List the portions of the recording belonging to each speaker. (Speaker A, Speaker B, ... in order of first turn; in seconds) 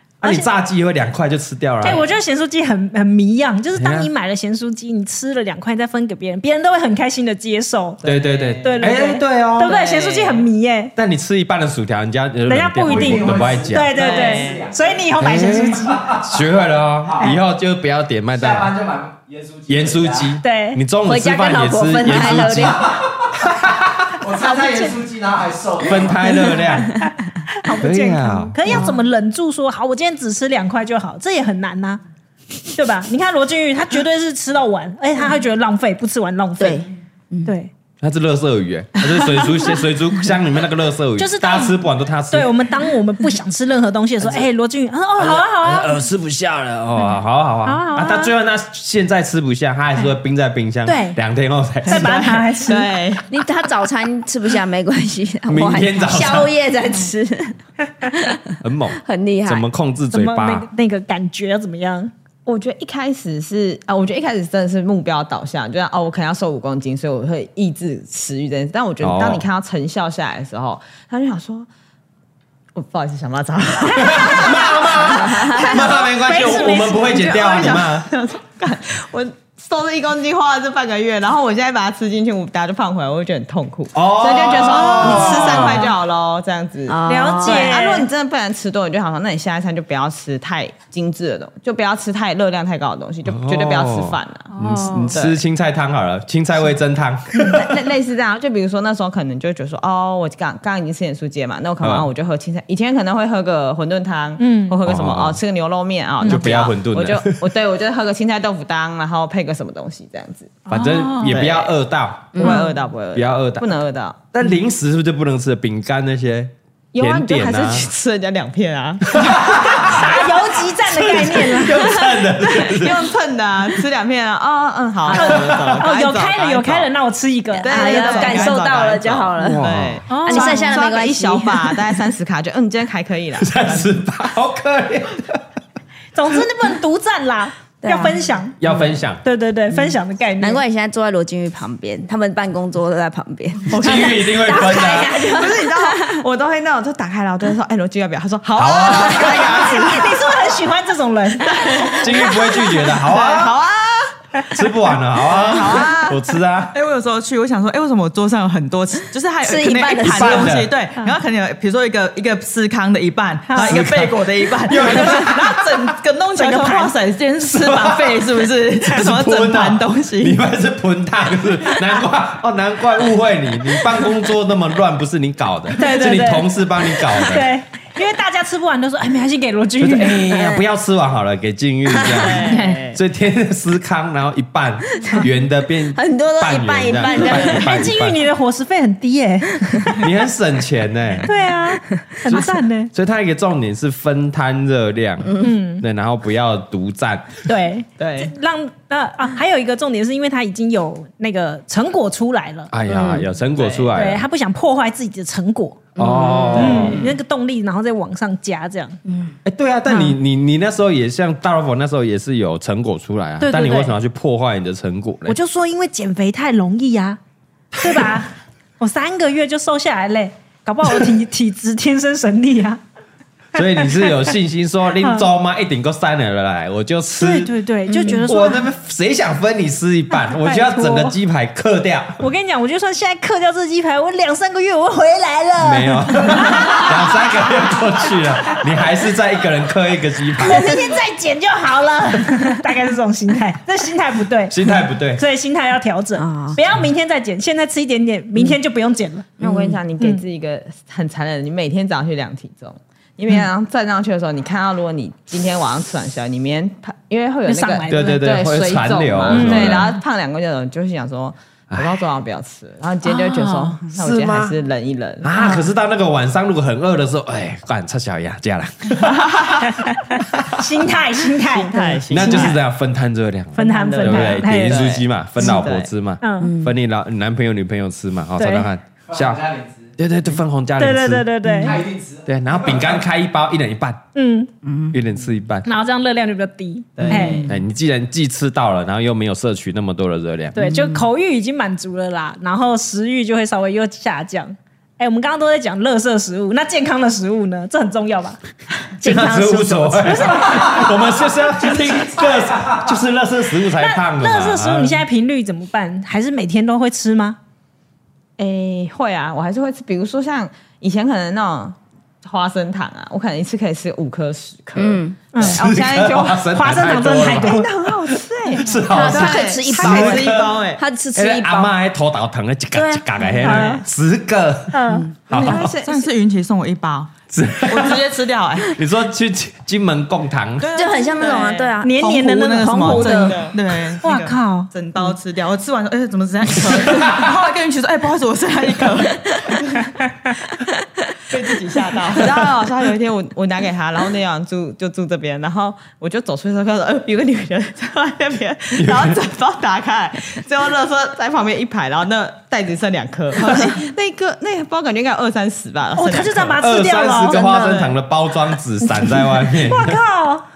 Speaker A: 0.2-2.0, 3.8-4.1, 8.0-9.7, 11.0-14.0, 15.2-18.7, 19.7-24.1, 25.8-27.0, 27.8-28.9, 38.0-42.7, 45.2-52.5, 55.5-56.5, 58.6-60.7, 69.0-69.4, 74.0-78.1, 83.9-85.9, 93.3-97.8, 101.8-102.1, 104.8-105.4, 106.2-107.4, 110.7-112.6, 113.1-113.7, 114.3-117.9, 119.1-120.2, 120.7-123.1, 125.3-125.8, 129.4-130.1, 133.4-135.4, 138.6-139.2, 143.7-145.2, 148.6-149.9, 151.8-153.6, 154.5-156.7, 160.1-160.7, 163.6-165.8, 167.4-168.2, 168.9-177.6, 179.8-188.2, 190.0-191.3, 192.3-197.4, 202.7-204.3, 206.0-207.0, 209.4-215.4, 223.5-232.2, 235.6-240.8, 244.5-245.2, 257.9-259.9, 261.7-262.0, 263.9-264.6, 265.2-270.5, 272.1-279.4, 280.0-281.3, 282.3-284.0, 284.9-285.7, 287.5-290.6, 299.0-305.0, 315.4-320.5, 321.1-325.8, 327.3-328.0, 328.7-330.7, 336.9-337.2, 348.8-349.2, 356.6-360.0
Speaker B: 0.2-0.5, 1.8-8.0, 8.6-10.9, 12.5-16.2, 20.4-20.8, 24.5-24.9, 26.3-32.0, 32.7-36.9, 37.5-37.7, 41.2-41.8, 42.3-46.0, 47.6-48.3, 50.9-51.2, 51.9-52.9, 60.1-62.1, 73.9-75.0, 75.5-77.8, 87.1-88.1, 94.5-95.2, 104.4-104.8, 106.2-106.5, 110.7-111.4, 112.4-112.7, 119.5-122.0, 125.1-128.6, 130.1-130.9, 136.1-138.6, 139.2-140.6, 144.8-145.4, 149.6-151.7, 163.5-163.7, 164.8-165.5, 166.4-166.9, 175.8-176.6, 177.1-180.2, 182.5-182.8, 187.3-190.1, 191.2-192.9, 195.4-195.8, 197.5-202.7, 203.9-205.9, 206.6-209.0, 209.9-210.2, 213.4-213.9, 215.2-217.2, 217.8-222.8, 223.6-224.2, 225.0-225.3, 227.2-228.7, 230.3-231.2, 232.2-237.0, 240.4-244.6, 245.1-249.3, 257.5-258.2, 259.3-260.0, 263.1-263.8, 265.4-265.6, 269.6-272.6, 273.6-274.9, 276.2-276.5, 278.4-278.7, 280.8-281.8, 284.1-284.5, 285.6-287.4, 290.6-298.4, 299.0-301.1, 303.8-307.4, 315.3-315.6, 316.5-317.7, 323.4-323.8, 324.7-325.1, 331.8-333.4, 334.0-334.7, 355.9-357.5, 359.6-360.4
Speaker C: 8.0-8.9, 9.6-10.5, 13.9-14.7, 51.9-53.3, 62.5-71.7, 72.7-75.6, 77.1-95.4, 97.4-110.7, 111.2-111.7, 112.4-114.3, 116.9-120.1, 122.3-126.9, 127.6-134.0, 143.8-144.1, 145.2-150.5, 151.5-154.1, 155.4-156.2, 182.0-183.0, 187.2-187.5, 198.0-198.3, 203.6-203.9, 206.6-207.1, 249.4-265.5, 271.4-272.6, 273.6-275.9, 287.0-287.5, 308.4-316.5, 317.1-320.8, 325.3-326.1, 331.2-331.6, 333.3-333.6, 342.1-356.7, 357.3-358.0
Speaker D: 12.8-15.1, 16.0-16.4, 18.3-20.4, 22.5-23.3, 24.2-26.3, 279.1-279.9, 281.6-283.0
Speaker E: 21.0-23.0, 26.6-27.0, 28.6-29.0, 36.6-37.5, 53.3-59.7, 75.1-75.8, 86.9-87.8, 112.3-112.7, 127.6-131.9, 137.8-138.9, 139.7-146.2, 151.6-151.9, 159.4-160.6, 180.2-180.6, 182.0-182.5, 185.0-185.3, 185.9-187.7, 202.9-203.3, 206.0-206.9, 209.1-209.4, 246.2-246.6, 249.4-249.8, 276.4-276.7, 281.5-281.7, 284.6-285.0, 287.1-287.4, 290.6-291.1, 314.8-315.2, 318.8-321.7, 322.8-323.7, 324.9-325.5, 330.7-332.0, 332.6-333.4
Speaker F: 128.2-129.2, 155.4-155.9, 156.7-170.4, 319.1-320.8, 325.5-327.1, 327.7-328.7, 330.6-339.5, 341.3-342.5